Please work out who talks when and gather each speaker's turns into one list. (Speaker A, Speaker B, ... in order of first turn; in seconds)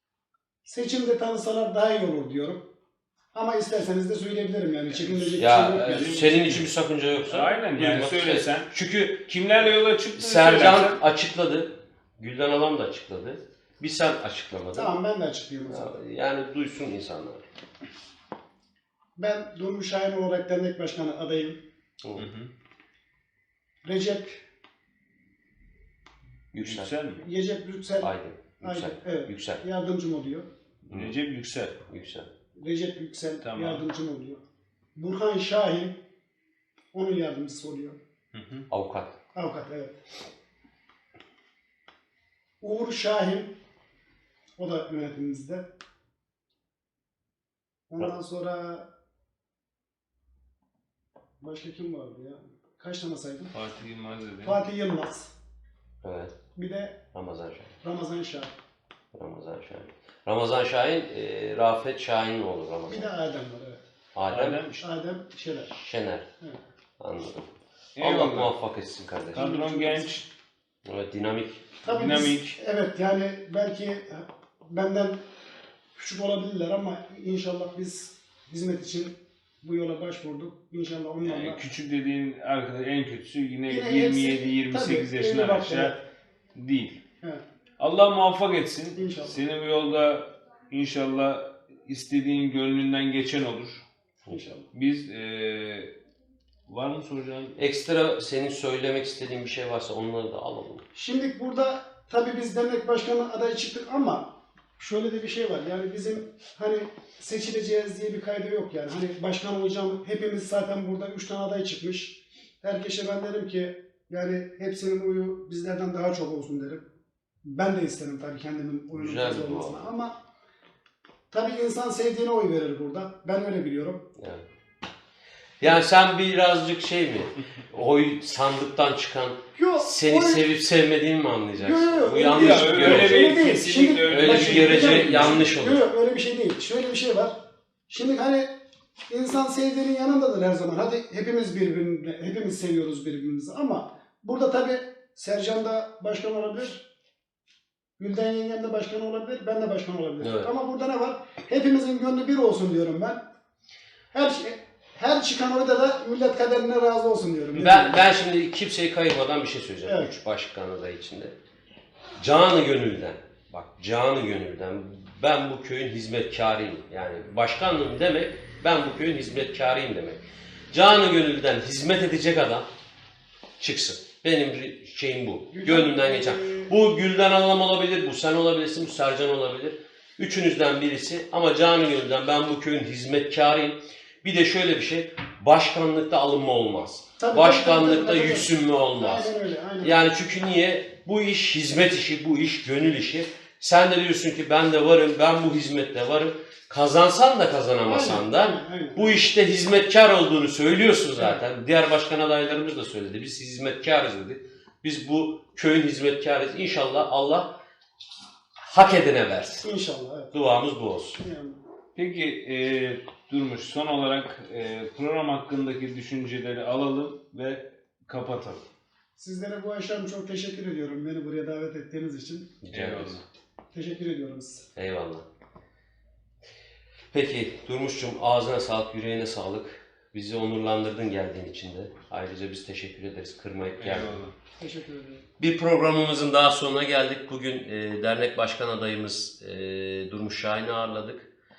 Speaker A: 0.6-2.6, 3.3-6.2, 14.7-16.0, 19.2-21.6, 23.8-24.4, 27.1-30.5, 32.5-34.4, 35.0-36.0, 36.9-38.0, 39.3-40.0, 42.6-43.5, 44.6-45.7, 47.9-48.9, 51.4-53.5, 54.4-55.3, 56.5-57.0, 57.8-58.5, 62.9-63.8, 64.8-65.7, 69.3-70.1, 71.8-75.2, 75.9-81.6, 83.7-86.0, 89.0-89.4, 94.3-94.7, 100.9-116.8, 117.4-120.2, 121.3-124.1, 129.5-130.4, 131.6-137.4, 137.9-138.5, 139.1-146.9, 148.0-153.3, 154.1-158.0, 159.8-160.1, 175.5-176.7, 187.2-190.0, 197.8-199.2, 209.6-210.3, 211.2-211.6, 219.2-222.5, 223.7-224.7, 234.6-235.2
Speaker B: 4.9-6.7, 7.2-8.7, 9.2-11.0, 22.1-22.5, 26.6-27.2, 30.9-31.8, 33.4-33.8, 38.3-38.6, 53.5-54.6, 64.3-64.8, 68.0-68.5, 69.3-70.3, 71.8-72.6, 81.2-86.0, 86.5-87.0, 87.8-93.8, 94.7-95.9, 96.7-97.5, 132.0-135.4, 211.9-218.6, 222.7-223.2, 233.8-234.3
Speaker C: 5.4-9.2, 10.2-14.9, 15.7-17.4, 22.0-22.3, 26.5-26.9, 28.0-29.6, 31.9-32.3, 38.7-39.1, 56.0-56.3, 57.1-57.7, 59.1-63.1, 64.1-64.7, 65.7-66.3, 67.0-67.5, 68.0-69.4, 70.8-71.7, 97.6-100.8, 118.9-119.8, 124.2-124.4, 125.6-133.3, 134.1-135.8, 150.2-150.5, 157.5-161.3, 162.2-172.7, 173.6-207.5, 208.6-209.7, 210.3-211.2, 222.6-223.2, 224.8-225.2, 227.1-234.2, 235.4-241.3